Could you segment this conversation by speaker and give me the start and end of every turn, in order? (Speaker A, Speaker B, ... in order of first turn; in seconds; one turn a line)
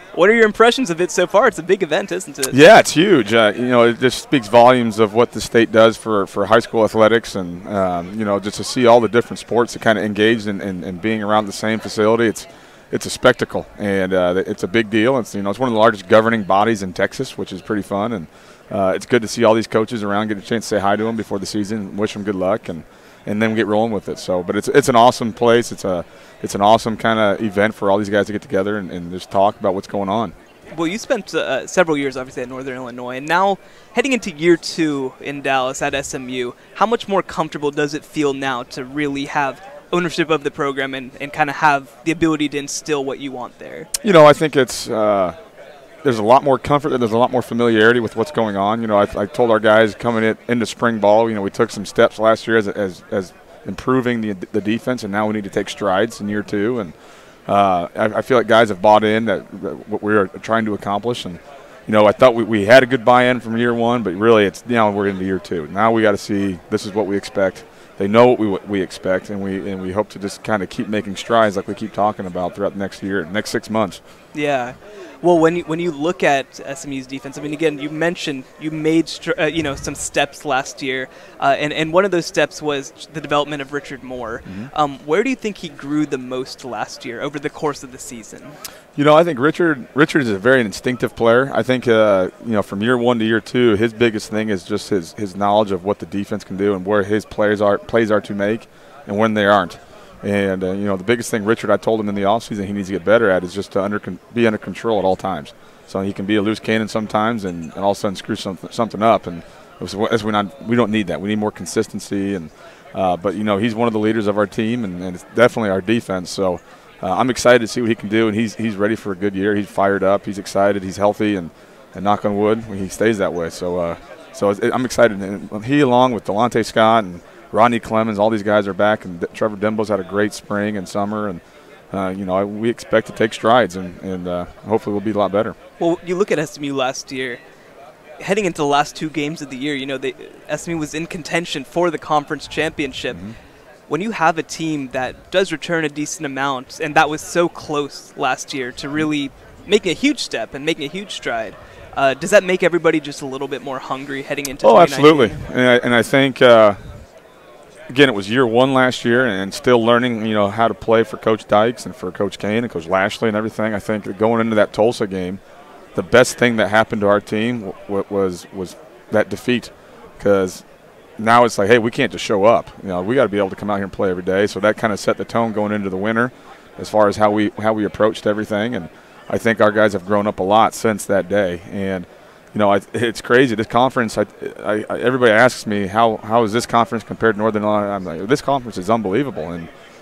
Speaker A: 0.1-2.6
Speaker B: 2.5-30.3
Speaker A: 30.7-43.9
Speaker B: 44.0-45.4
Speaker B: 46.0-56.9
Speaker B: 57.5-74.0
Speaker A: 74.3-88.6
Speaker B: 89.0-131.4
Speaker B: 131.9-135.6
Speaker A: 135.8-137.4
Speaker A: 138.2-143.3
Speaker B: 143.1-143.3
Speaker A: 143.9-155.4
Speaker B: 154.6-157.0
Speaker B: 157.9-165.4
Speaker B: 165.9-170.6
Speaker B: 171.2-189.7